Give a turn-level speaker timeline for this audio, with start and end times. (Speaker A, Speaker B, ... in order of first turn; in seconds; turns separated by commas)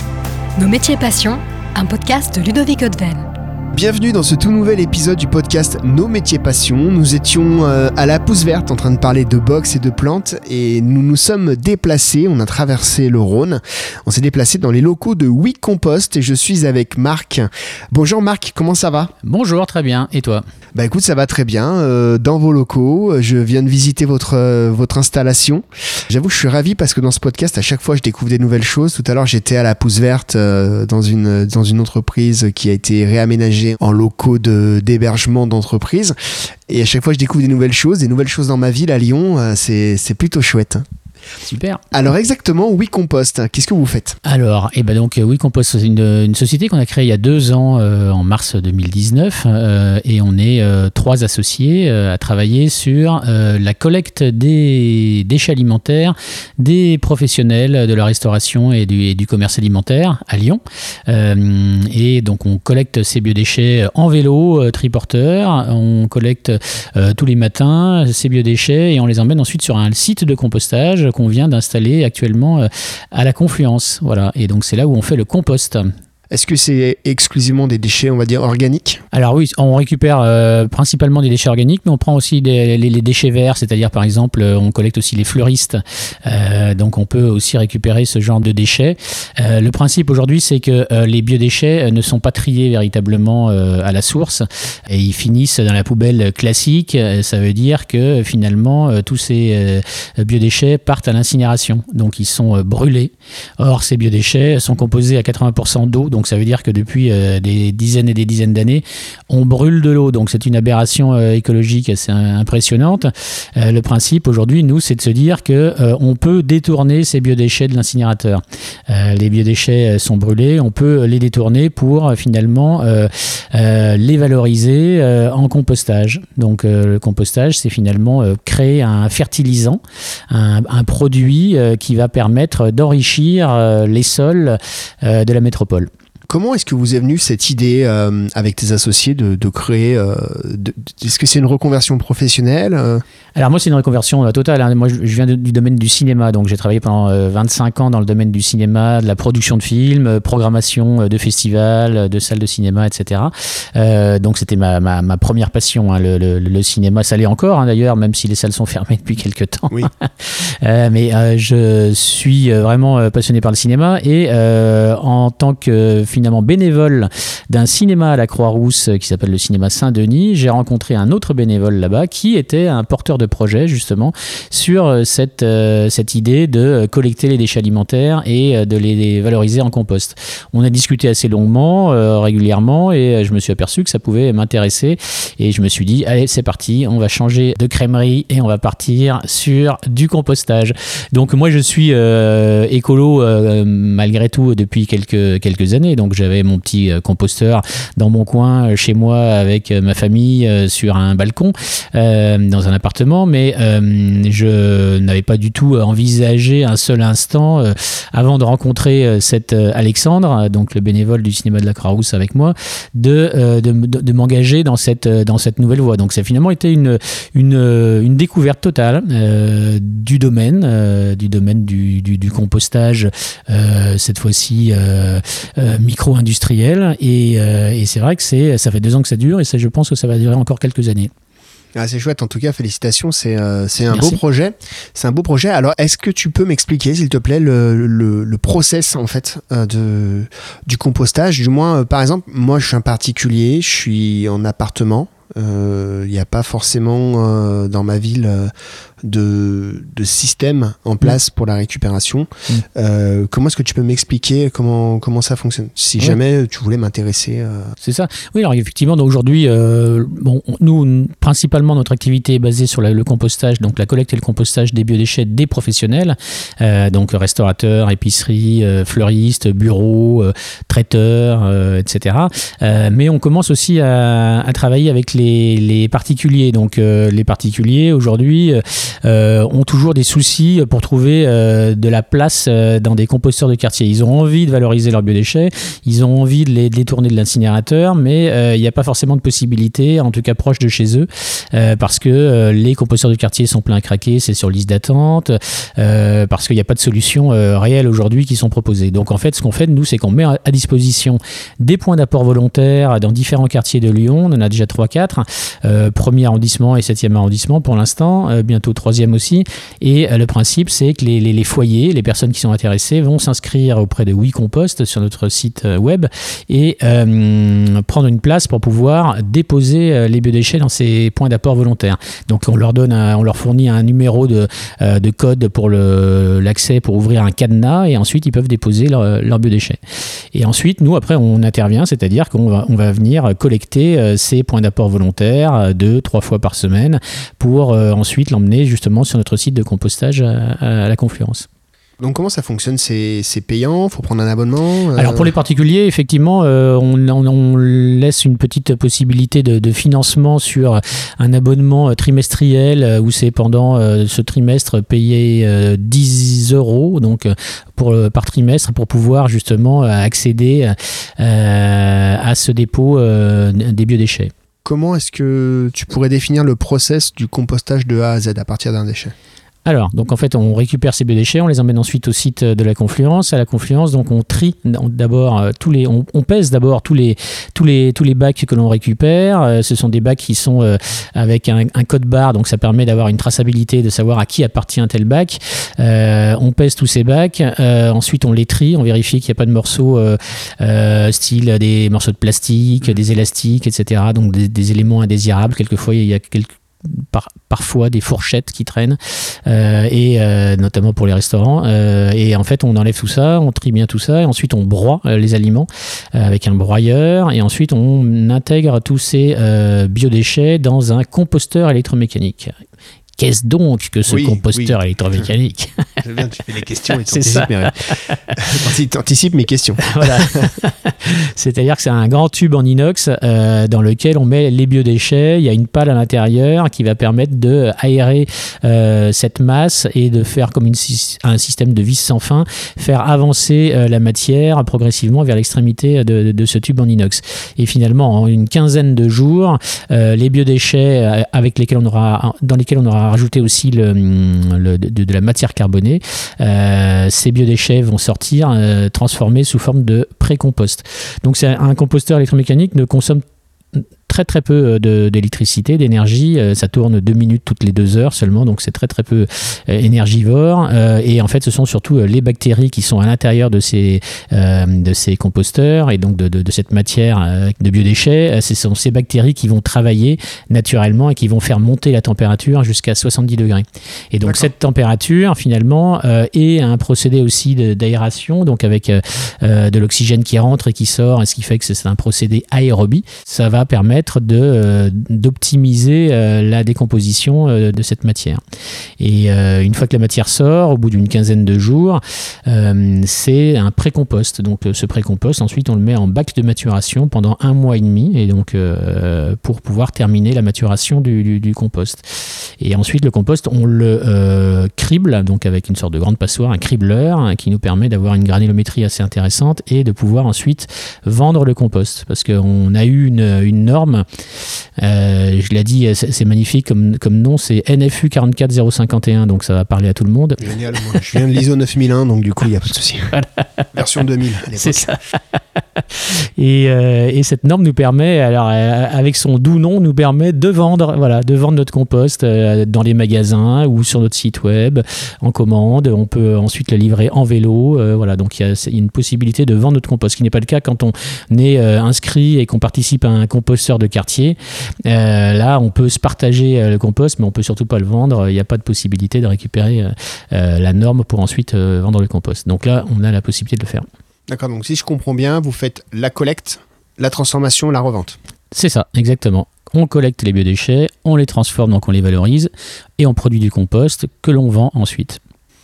Speaker A: 0.6-3.3, Speaker B: 3.7-19.1, Speaker C: 19.2-20.4, Speaker B: 20.7-36.2, Speaker B: 36.7-40.9, Speaker C: 41.4-41.8, Speaker B: 41.9-44.2, Speaker C: 44.2-75.8, Speaker B: 76.3-79.0, Speaker C: 79.1-135.9, Speaker B: 136.3-143.0, Speaker C: 143.4-231.1, Speaker B: 231.8-248.5, Speaker C: 233.9-234.2, Speaker B: 249.0-257.7, Speaker C: 257.8-329.8, Speaker C: 330.3-341.5, Speaker B: 342.0-345.3, Speaker C: 345.0-364.3, Speaker B: 364.6-369.1, Speaker C: 369.6-412.5, Speaker C: 413.2-415.8, Speaker B: 414.1-414.8, Speaker B: 416.0-417.8, Speaker C: 417.1-418.2, Speaker B: 418.3-420.5, Speaker C: 419.9-453.2, Speaker C: 454.1-488.4, Speaker C: 489.0-502.0, Speaker C: 502.6-514.0, Speaker C: 514.8-520.6, Speaker B: 520.4-523.2, Speaker B: 523.7-525.0, Speaker C: 524.6-525.2, Speaker C: 525.8-553.9, Speaker B: 554.3-558.2, Speaker C: 558.5-565.2